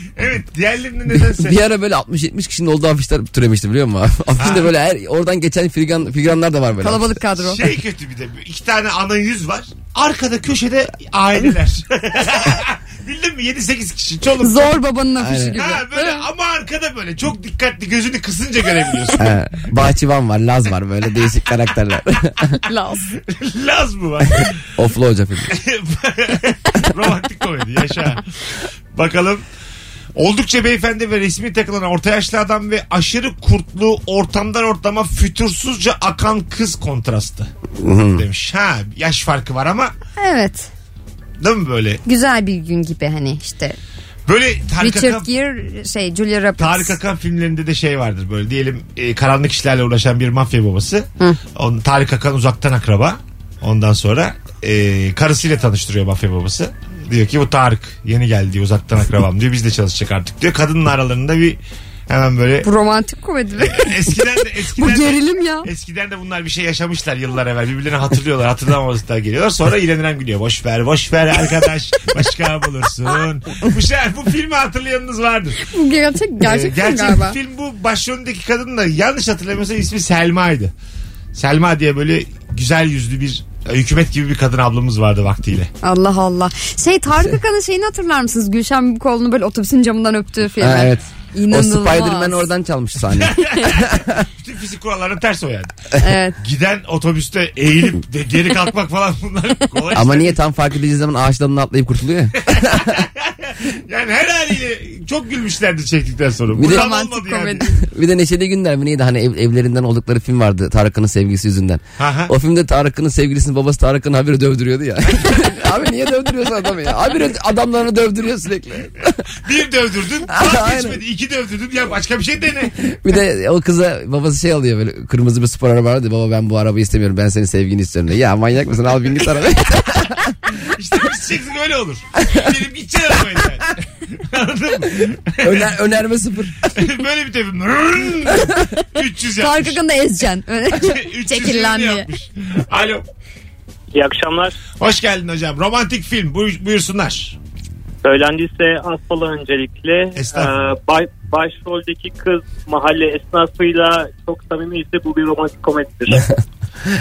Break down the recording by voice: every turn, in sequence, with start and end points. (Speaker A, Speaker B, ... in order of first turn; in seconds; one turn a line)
Speaker A: 0.2-1.6
Speaker B: 1.3-7.2
Speaker A: 4.4-4.7
Speaker C: 6.8-7.6
Speaker A: 7.4-14.8
Speaker C: 14.4-16.3
Speaker B: 15.2-15.6
Speaker A: 15.5-19.4
Speaker B: 19.2-22.6
Speaker C: 22.6-23.1
Speaker A: 23.2-24.6
Speaker B: 24.8-25.5
Speaker A: 25.5-28.2
Speaker A: 28.9-29.4
Speaker A: 30.2-37.5
Speaker B: 37.8-38.2
Speaker A: 38.1-39.9
Speaker C: 40.2-40.7
Speaker A: 41.4-42.0
Speaker C: 42.1-43.8
Speaker A: 44.3-45.3
Speaker C: 44.8-47.0
Speaker A: 46.6-62.7
Speaker C: 62.6-65.7
Speaker A: 63.6-75.6
Speaker C: 75.6-77.4
Speaker A: 76.4-80.7
Speaker A: 81.3-85.7
Speaker C: 85.8-92.5
Speaker B: 90.6-94.1
Speaker A: 93.2-95.8
Speaker C: 96.0-96.4
Speaker A: 96.4-100.4
Speaker B: 100.0-102.9
Speaker A: 102.5-107.7
Speaker B: 106.6-106.9
Speaker C: 106.6-107.8
Speaker B: 107.8-119.2
Speaker A: 112.0-112.3
Speaker A: 119.4-122.8
Speaker B: 120.3-121.0
Speaker B: 122.8-130.3
Speaker A: 130.6-135.7
Speaker B: 135.4-136.7
Speaker A: 136.7-139.8
Speaker C: 139.4-142.1
Speaker A: 140.8-143.0
Speaker D: 143.9-144.6
Speaker A: 144.8-147.4
Speaker D: 148.0-156.4
Speaker A: 150.2-150.5